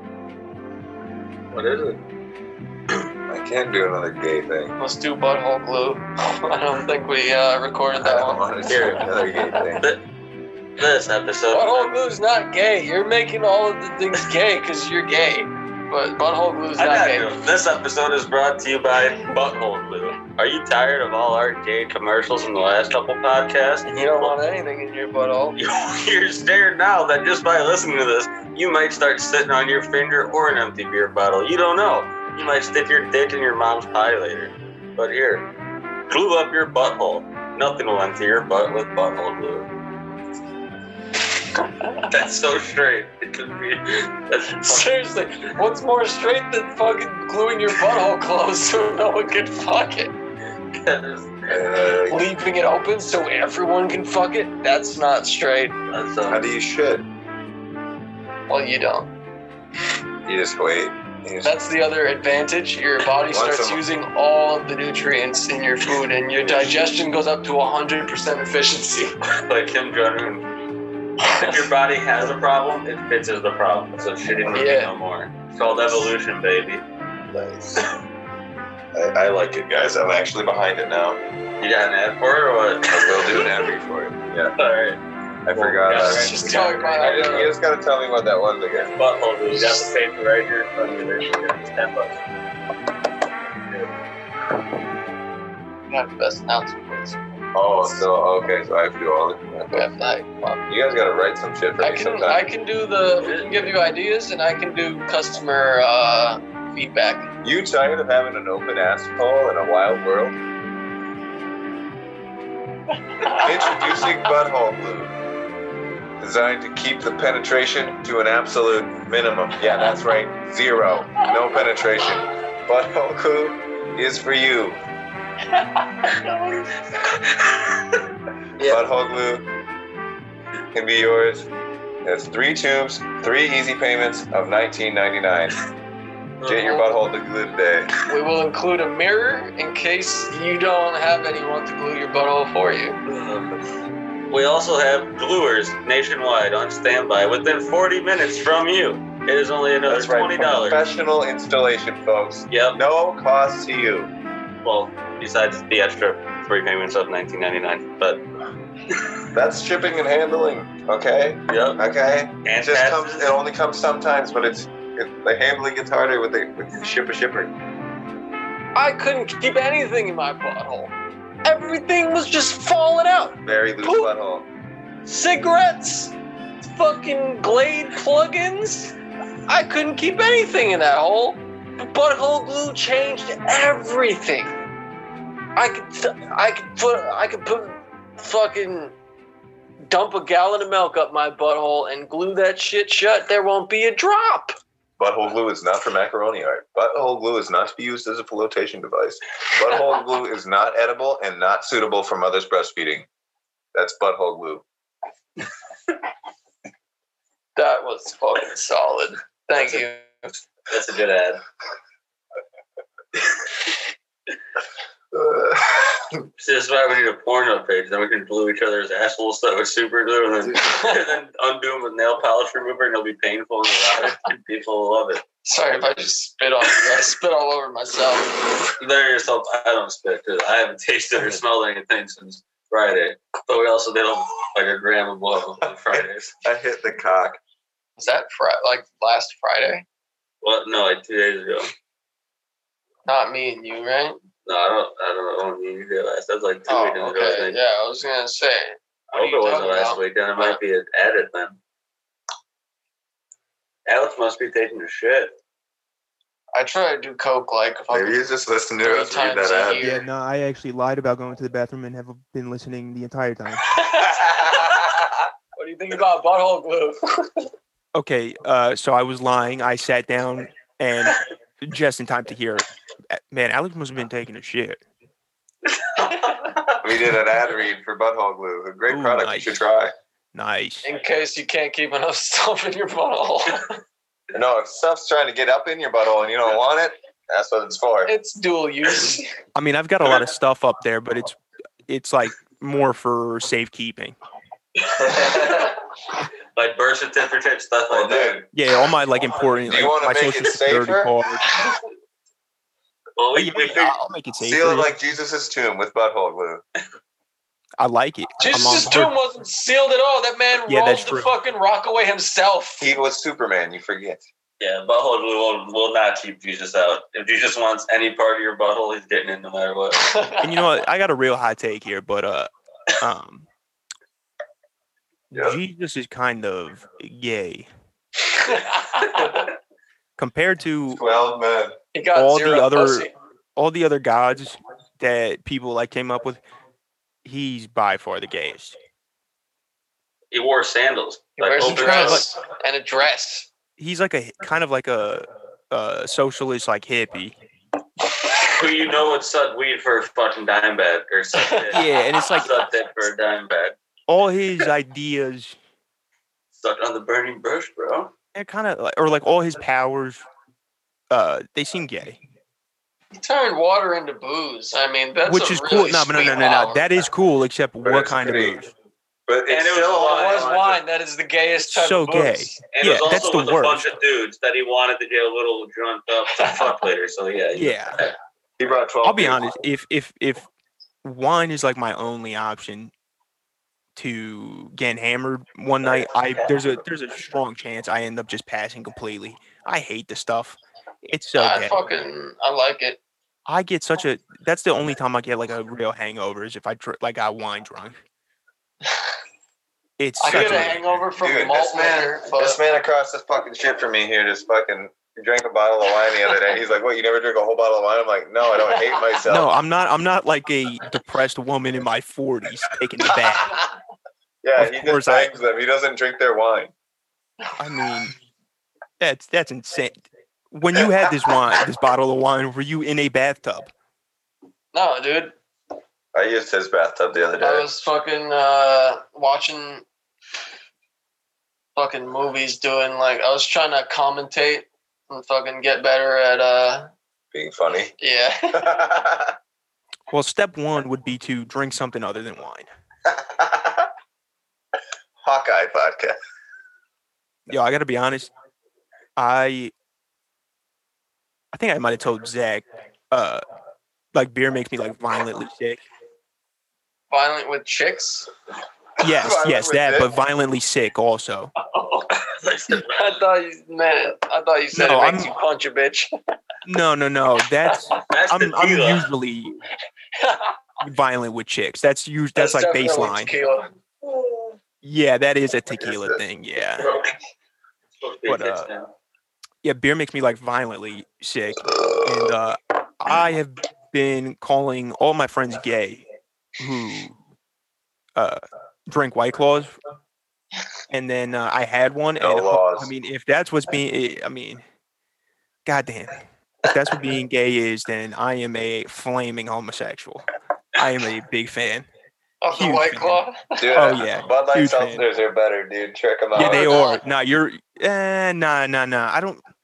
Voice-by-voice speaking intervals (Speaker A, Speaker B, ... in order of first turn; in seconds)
Speaker A: 1.5-2.0, 8.7-9.1, 10.8-11.9, 16.8-24.3, 25.6-35.5, 36.1-39.7, 42.1-44.9, 50.8-51.5, 55.9-56.5, 66.5-66.8, 69.5-70.5, 71.3-76.8, 81.6-83.7, 84.6-85.0, 85.5-87.5, 89.0-92.2, 103.2-103.7, 136.4-136.8, 143.1-143.6, 144.3-150.9, 152.5-152.8, 154.6-158.2, 161.5-161.8, 162.4-163.4, 209.6-209.8, 210.7-211.4, 216.4-225.2, 228.8-236.3, 240.4-241.7, 244.4-247.6, 249.1-251.6, 253.9-255.3, 295.2-295.7, 296.5-298.4, 303.2-303.9, 314.6-320.1, 340.3-342.2, 348.5-353.8, 356.5-358.1, 369.5-370.8, 372.7-378.1, 461.7-463.2, 468.1-469.1, 478.0-478.9
Speaker B: 3.3-4.8, 8.0-9.8, 51.5-52.2, 56.3-57.0, 60.2-61.5, 63.3-63.8, 77.3-77.8, 78.9-81.2, 82.9-84.5, 85.5-86.4, 87.0-88.9, 97.5-99.8, 100.7-102.4, 107.4-110.3, 113.3-115.2, 116.2-124.8, 128.6-129.4, 130.7-131.5, 132.0-135.6, 136.4-137.9, 149.9-154.1, 159.3-167.5, 173.4-174.5, 195.0-203.1, 203.7-204.6, 215.1-216.2, 235.9-237.4, 257.9-259.8, 276.8-279.9, 284.3-288.1, 294.9-295.7, 297.9-298.5, 299.6-301.1, 304.4-306.6, 312.8-314.2, 325.3-325.6, 330.9-331.8, 367.8-368.6, 369.3-370.5, 378.6-379.5, 400.2-409.5, 414.4-416.7, 426.1-427.7, 437.3-437.9, 438.5-439.3, 443.1-443.9, 445.2-446.1, 459.1-460.1, 475.8-476.2, 481.6-482.3, 492.2-492.9, 503.6-506.8
Speaker C: 4.8-9.8, 11.5-17.4, 23.9-25.6, 44.5-50.1, 52.1-55.8, 58.5-59.1, 61.4-69.1, 71.2-71.7, 74.5-74.9, 86.0-87.5, 95.9-97.2, 99.7-100.6, 101.8-107.3, 113.2-113.5, 138.1-143.0, 168.7-170.9, 171.4-174.1, 175.0-178.9, 179.5-184.6, 185.6-188.9, 189.9-194.6, 207.6-210.3, 225.4-228.6, 238.0-239.8, 243.1-244.2, 246.7-250.6, 256.5-258.2, 258.8-260.1, 263.7-264.9, 265.6-267.5, 280.8-283.8, 288.1-289.3, 301.5-301.8, 308.4-312.9, 320.0-320.7, 328.3-329.4, 331.9-333.1, 341.4-343.5, 363.2-366.8, 370.0-372.6, 391.4-393.0, 400.2-402.6, 424.7-425.4, 427.4-429.8, 431.7-436.9, 438.0-438.9, 457.1-458.3, 462.9-466.1, 470.1-470.6, 472.4-474.4, 502.4-503.7, 506.4-507.0
Speaker D: 259.8-263.8, 267.9-274.8, 278.9-279.6, 280.3-280.9, 289.5-294.2, 298.5-301.4, 303.3-304.9, 307.8-309.1, 310.7-311.3, 320.4-323.5, 325.3-327.7, 330.2-331.0, 332.1-336.4, 337.2-338.8, 341.6-342.2, 343.8-347.4, 351.7-352.6, 354.1-355.6, 358.3-360.2, 361.1-362.2, 365.2-368.7, 371.6-373.9, 377.5-378.0, 379.0-380.5, 381.0-382.9, 383.9-391.8, 393.5-398.0, 400.0-401.0, 409.2-413.5, 414.6-415.3, 417.6-418.1, 419.0-423.7, 440.1-442.6, 447.5-448.3, 449.2-449.7, 451.5-453.4, 454.1-455.8, 459.0-461.5, 464.7-465.3, 466.6-469.6, 470.8-473.3, 474.8-476.9, 478.2-478.7, 479.6-486.0, 486.6-487.1, 488.1-489.7, 490.9-494.6, 495.6-501.9, 502.5-503.2, 503.7-505.0, 506.3-509.4